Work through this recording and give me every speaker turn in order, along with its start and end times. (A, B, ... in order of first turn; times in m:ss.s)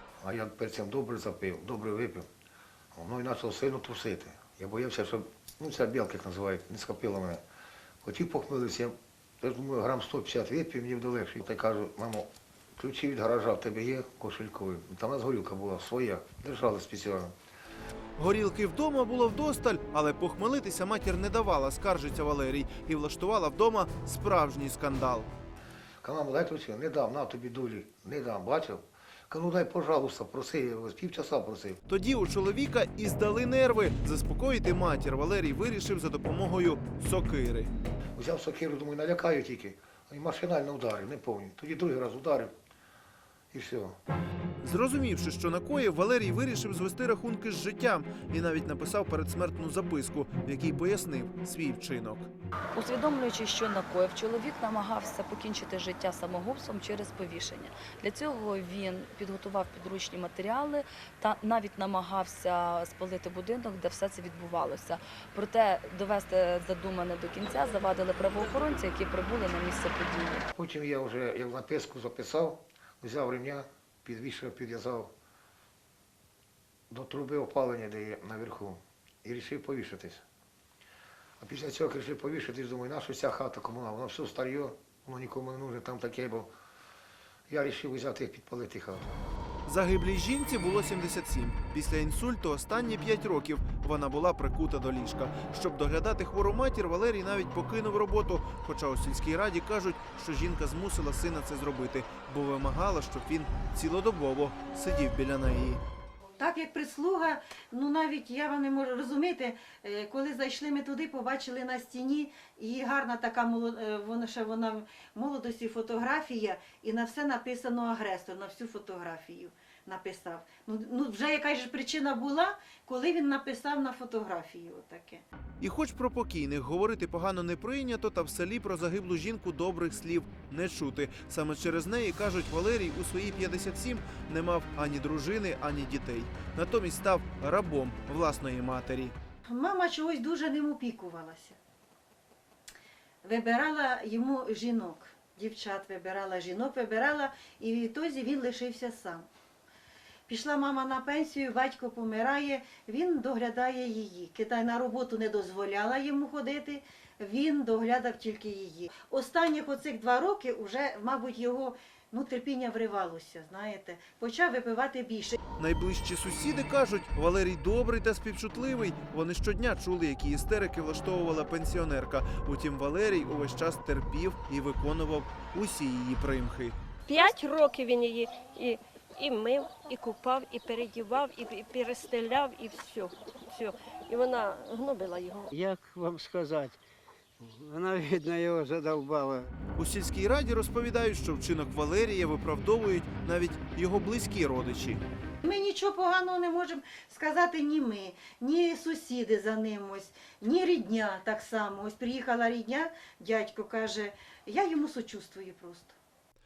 0:00.2-0:02.3 A
0:02.9-0:07.4 A
0:08.0-0:17.3 A
0:18.2-0:25.3 B
0:26.0-0:31.8 A
0:31.9-0:37.7 B
0:38.2-0:42.5 A
0:43.5-0:44.0 A
0:44.6-0:52.3 B
0:52.7-1:10.5 C
1:10.5-1:15.1 A
1:16.9-1:20.2 A
1:21.4-1:26.5 A
1:27.5-1:29.1 A
1:29.6-1:45.8 B
1:46.4-2:05.2 D
2:05.6-2:19.2 B
2:19.5-2:21.6 D
2:23.2-2:29.3 D
2:30.3-2:45.4 D
2:45.6-2:56.8 B
2:57.1-3:05.5 E
3:05.5-3:06.8 F
3:07.4-3:09.5 F
3:09.8-3:15.0 B
3:15.4-3:26.0 D